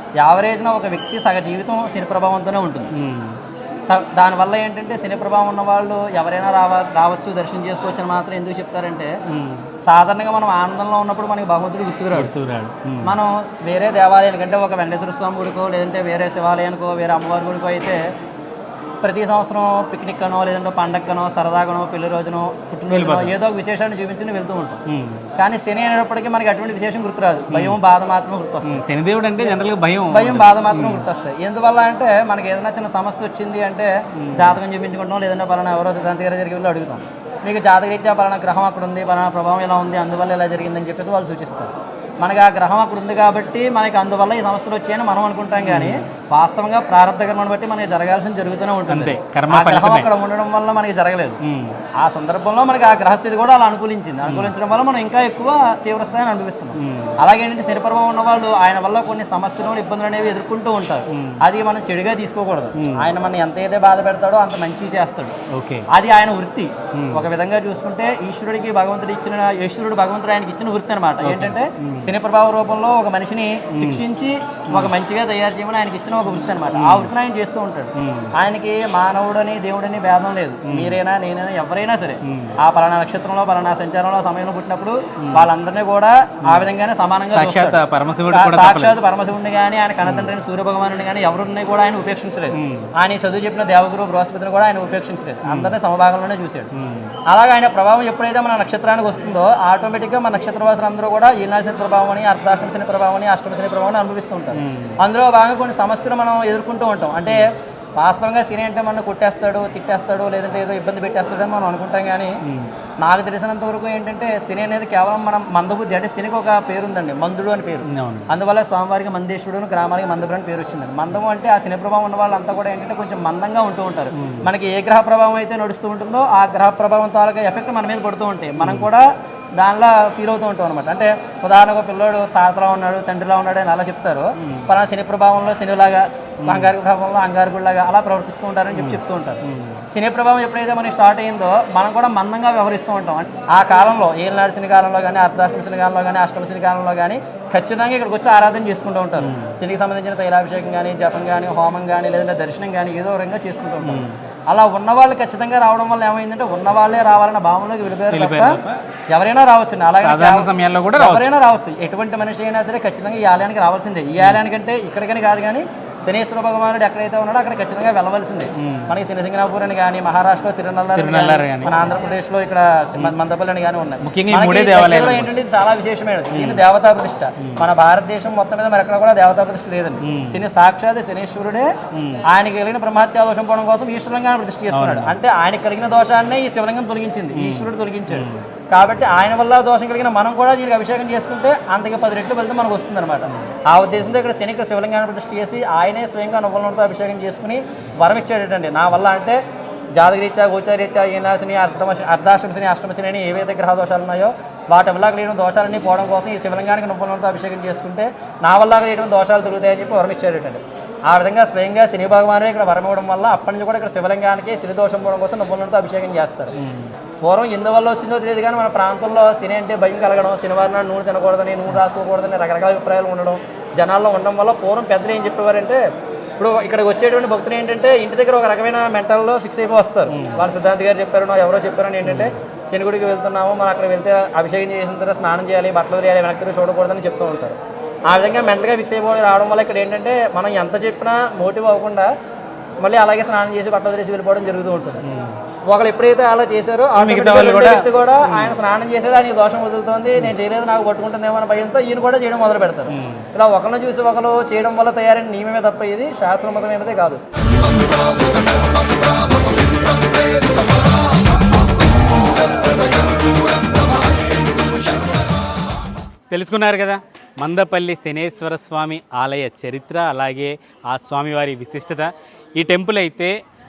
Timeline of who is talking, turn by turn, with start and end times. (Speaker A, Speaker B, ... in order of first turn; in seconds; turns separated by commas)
Speaker A: 0.2-2.9, Speaker B: 3.0-3.4, Speaker A: 3.9-9.1, Speaker B: 9.3-9.7, Speaker A: 9.8-12.3, Speaker B: 12.1-13.1, Speaker A: 13.0-18.0, Speaker A: 19.0-24.8, Speaker B: 22.9-23.3, Speaker B: 24.9-25.3, Speaker A: 25.4-28.8, Speaker B: 27.5-27.8, Speaker B: 28.6-31.1, Speaker A: 30.1-51.4, Speaker B: 34.2-34.6, Speaker B: 45.6-46.0, Speaker B: 48.9-50.1, Speaker B: 51.4-51.8, Speaker A: 52.0-65.3, Speaker B: 54.2-54.5, Speaker B: 56.8-57.1, Speaker B: 61.1-61.4, Speaker B: 62.8-63.0, Speaker B: 65.5-65.9, Speaker A: 65.9-96.7, Speaker B: 67.0-67.2, Speaker B: 71.2-72.1, Speaker B: 73.7-74.0, Speaker B: 76.7-77.1, Speaker B: 78.0-78.3, Speaker B: 80.7-81.0, Speaker B: 82.2-82.5, Speaker B: 87.3-89.0, Speaker B: 90.0-90.3, Speaker B: 92.5-92.9, Speaker B: 95.5-95.7, Speaker B: 96.7-97.1, Speaker A: 97.3-107.5, Speaker B: 104.5-105.0, Speaker A: 108.0-112.4, Speaker B: 112.5-112.7, Speaker A: 113.0-129.1, Speaker B: 117.9-118.3, Speaker B: 124.2-124.5, Speaker B: 128.6-128.9, Speaker A: 129.6-158.6, Speaker B: 134.4-134.7, Speaker B: 136.4-136.7, Speaker B: 138.7-139.8, Speaker B: 149.2-149.5, Speaker B: 153.8-154.2, Speaker B: 158.1-158.8, Speaker A: 159.1-181.7, Speaker B: 160.0-161.3, Speaker B: 168.6-168.9, Speaker B: 171.0-171.8, Speaker B: 174.0-175.3, Speaker B: 176.3-176.6, Speaker B: 180.0-180.4, Speaker B: 181.9-182.2, Speaker A: 182.3-199.4, Speaker B: 184.7-185.1, Speaker B: 187.3-188.5, Speaker A: 199.9-216.5, Speaker B: 216.6-216.9, Speaker A: 217.2-225.8, Speaker A: 226.4-242.1, Speaker B: 230.1-230.4, Speaker B: 232.1-232.3, Speaker A: 242.8-245.0, Speaker B: 245.0-245.4, Speaker A: 245.7-257.2, Speaker B: 247.0-248.6, Speaker B: 252.9-253.3, Speaker B: 266.3-273.4